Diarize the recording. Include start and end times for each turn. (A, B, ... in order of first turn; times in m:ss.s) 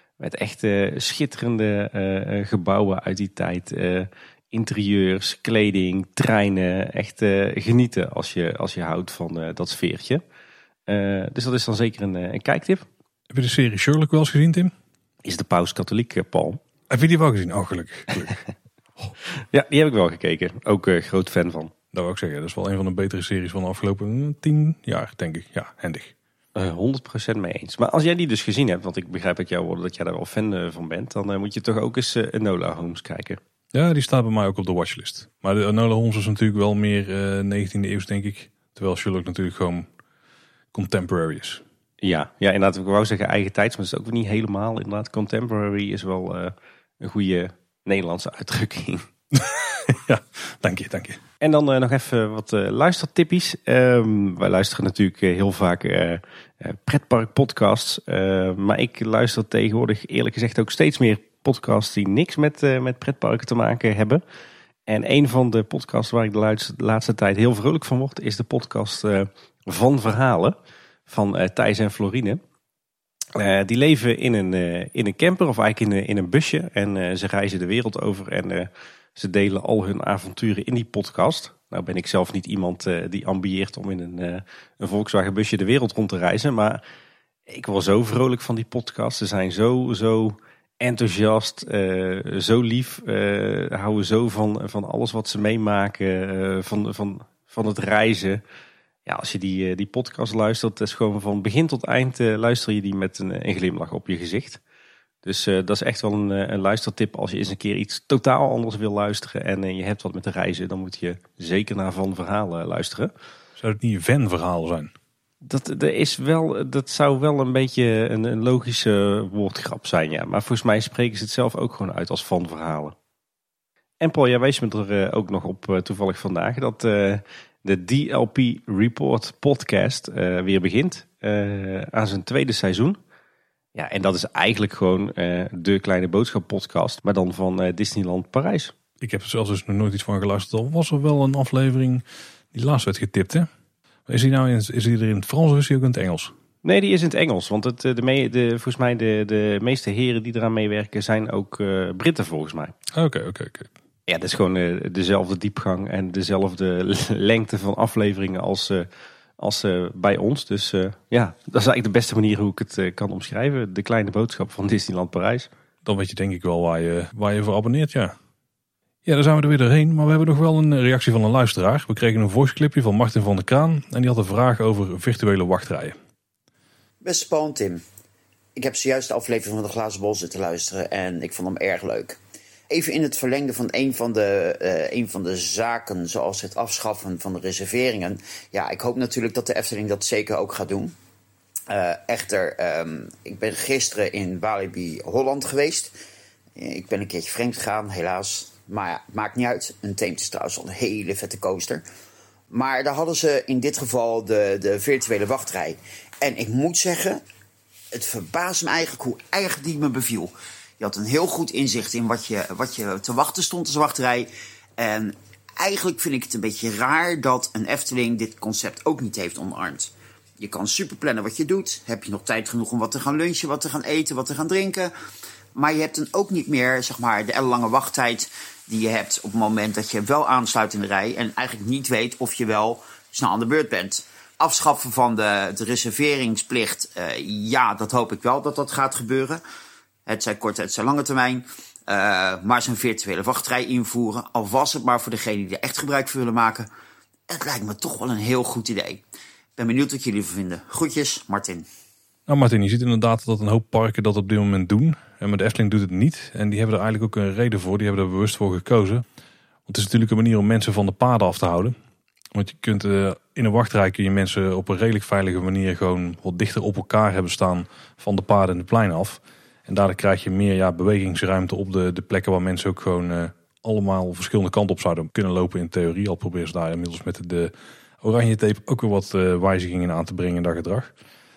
0:00.2-0:10.2 A
0:10.9-0:12.9 A
0:13.3-0:14.7 B
0:15.2-0:16.6 A
0:16.9-0:18.4 B
0:19.5-0:21.7 A
0:21.9-0:26.1 B
0:26.6-0:33.4 A
0:33.7-0:39.9 B
0:40.7-0:41.6 B
0:42.0-0:49.1 A
0:49.3-0:51.2 B
0:51.4-1:04.2 A
1:04.9-1:10.6 A
1:11.1-1:12.4 A
1:13.4-1:26.8 A
1:27.5-1:38.4 A
1:39.1-1:44.6 A
1:45.2-1:53.1 A
1:53.6-1:54.9 B
1:55.4-2:02.9 A
2:04.0-2:13.0 A
2:13.7-2:18.7 A
2:19.0-2:23.5 B
2:24.1-2:26.3 B
2:26.6-2:32.7 A
2:32.9-2:33.7 B
2:34.1-2:38.9 A
2:39.4-2:45.5 A
2:45.8-2:48.2 B
2:49.0-2:56.0 B
2:57.0-2:57.8 C
2:58.6-3:02.2 C
3:02.7-3:10.9 C
3:11.7-3:15.9 C
3:16.6-3:21.8 C
3:22.5-3:27.2 C
3:27.9-3:44.9 C
3:45.6-3:59.4 C
4:00.1-4:06.7 C
4:07.3-4:09.0 C
4:09.6-4:11.7 C
4:12.3-4:19.0 B
4:19.7-4:21.7 B
4:22.3-4:40.9 B